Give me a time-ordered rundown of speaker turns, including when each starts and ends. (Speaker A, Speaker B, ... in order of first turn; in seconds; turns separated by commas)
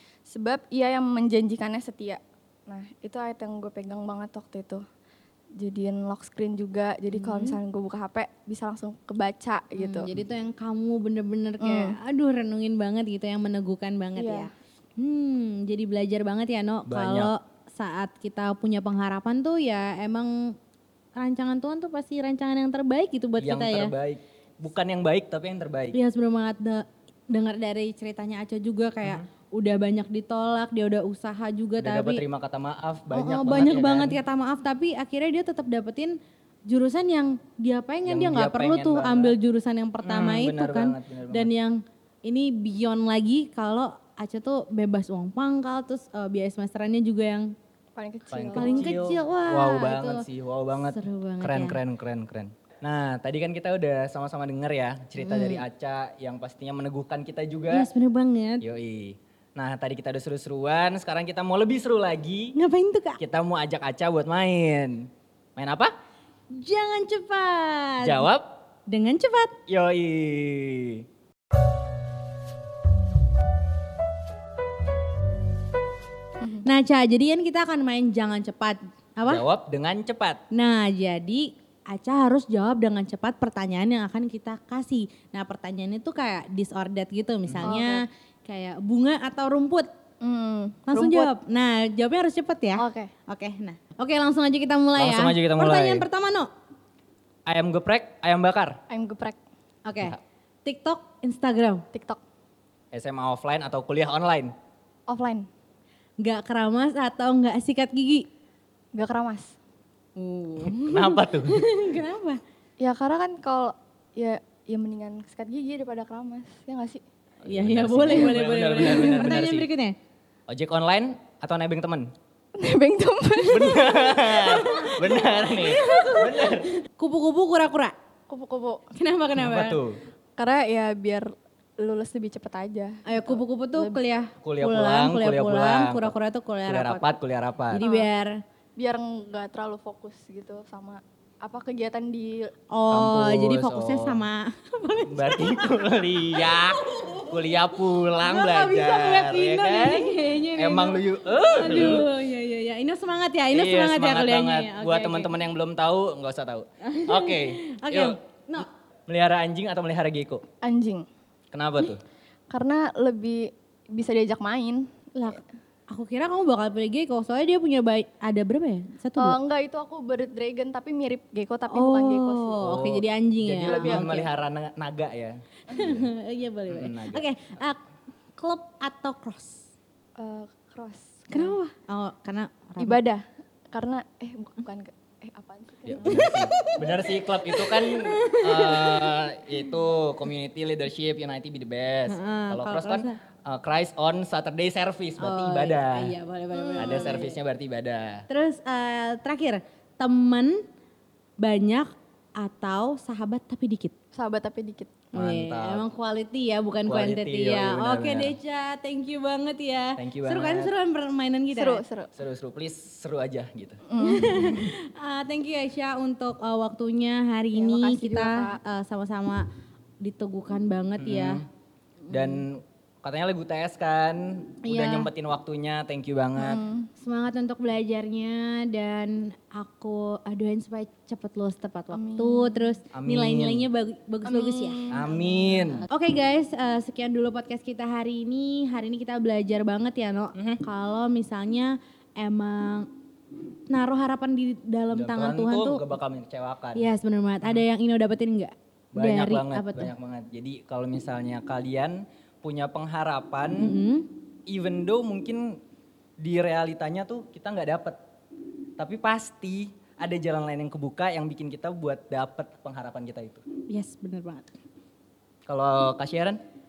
Speaker A: 0.2-4.8, Speaker A: 5.6-10.1, Speaker B: 7.1-7.6, Speaker B: 9.8-20.5, Speaker A: 11.6-12.0, Speaker A: 14.2-14.5, Speaker C: 16.9-17.3, Speaker B: 21.2-23.9, Speaker C: 23.4-26.0, Speaker B: 25.9-32.2, Speaker C: 31.8-34.2, Speaker B: 33.1-36.2, Speaker B: 36.7-47.5, Speaker C: 38.0-39.4, Speaker C: 40.0-41.5, Speaker A: 48.0-48.8, Speaker C: 48.3-57.9, Speaker B: 48.5-50.2, Speaker B: 50.8-51.8, Speaker B: 55.2-55.6, Speaker B: 57.7-58.6, Speaker C: 58.6-62.5, Speaker B: 62.5-63.2, Speaker C: 63.2-65.9, Speaker B: 66.5-68.3, Speaker C: 68.0-68.5, Speaker B: 68.9-69.5, Speaker C: 69.7-71.0, Speaker A: 76.4-76.7, Speaker B: 76.6-79.4, Speaker C: 79.2-80.4, Speaker B: 80.5-89.9, Speaker C: 87.5-87.7, Speaker A: 87.6-88.0, Speaker A: 90.2-91.3, Speaker B: 90.9-96.5, Speaker A: 92.8-93.1, Speaker C: 95.0-96.0, Speaker C: 97.5-98.8, Speaker A: 98.9-99.4, Speaker B: 99.8-101.8, Speaker A: 101.9-102.2, Speaker C: 102.9-104.5, Speaker A: 105.1-105.5, Speaker B: 106.2-108.2, Speaker A: 108.9-109.5, Speaker B: 110.2-112.4, Speaker C: 110.7-111.7, Speaker A: 112.8-117.0, Speaker C: 117.4-119.7, Speaker B: 117.5-120.0, Speaker C: 120.5-122.1, Speaker A: 122.5-126.4, Speaker C: 123.4-126.8, Speaker B: 124.5-127.9, Speaker A: 128.3-128.8, Speaker B: 128.9-129.8, Speaker C: 129.3-130.0, Speaker A: 130.4-134.0, Speaker B: 133.1-137.1, Speaker C: 134.4-136.1, Speaker C: 136.7-137.8, Speaker B: 137.7-138.4, Speaker A: 137.8-138.1, Speaker A: 138.8-142.5, Speaker B: 142.7-155.3, Speaker C: 142.9-144.2, Speaker C: 145.1-152.1, Speaker C: 153.5-160.4, Speaker B: 156.8-158.7, Speaker A: 160.6-161.1, Speaker C: 161.5-162.0, Speaker A: 162.5-165.4, Speaker B: 165.2-169.4, Speaker A: 169.2-172.6, Speaker B: 171.7-174.2, Speaker C: 172.6-176.1, Speaker A: 173.6-174.2, Speaker B: 175.7-177.8, Speaker C: 176.7-177.2, Speaker B: 178.3-179.7, Speaker A: 180.2-181.6, Speaker B: 181.3-183.0, Speaker A: 182.8-186.2, Speaker C: 185.8-196.1, Speaker B: 186.0-189.3, Speaker B: 192.1-193.2, Speaker B: 195.2-197.4, Speaker A: 196.5-197.3, Speaker C: 196.8-198.3, Speaker B: 198.3-200.6, Speaker B: 201.4-203.9, Speaker A: 204.1-205.0, Speaker C: 205.1-205.8, Speaker B: 205.1-211.8, Speaker C: 206.8-208.3, Speaker C: 210.0-210.7, Speaker A: 211.5-212.1, Speaker C: 212.1-213.8, Speaker A: 213.9-214.7, Speaker B: 214.0-219.4, Speaker A: 217.5-218.6, Speaker B: 220.0-221.4, Speaker C: 221.0-221.4, Speaker B: 222.1-222.4, Speaker C: 222.1-226.6, Speaker B: 224.6-225.1, Speaker A: 226.4-226.9, Speaker B: 227.0-235.0, Speaker A: 231.9-232.7, Speaker C: 232.9-233.7, Speaker A: 234.2-235.8, Speaker C: 234.9-235.8, Speaker B: 235.9-242.9, Speaker C: 240.3-240.6, Speaker B: 243.7-245.8, Speaker C: 244.9-246.9, Speaker B: 246.7-249.9, Speaker C: 248.9-253.7, Speaker B: 253.6-254.1, Speaker C: 254.5-255.6, Speaker C: 256.2-258.0, Speaker C: 258.8-263.4, Speaker B: 263.7-264.5, Speaker C: 265.5-266.4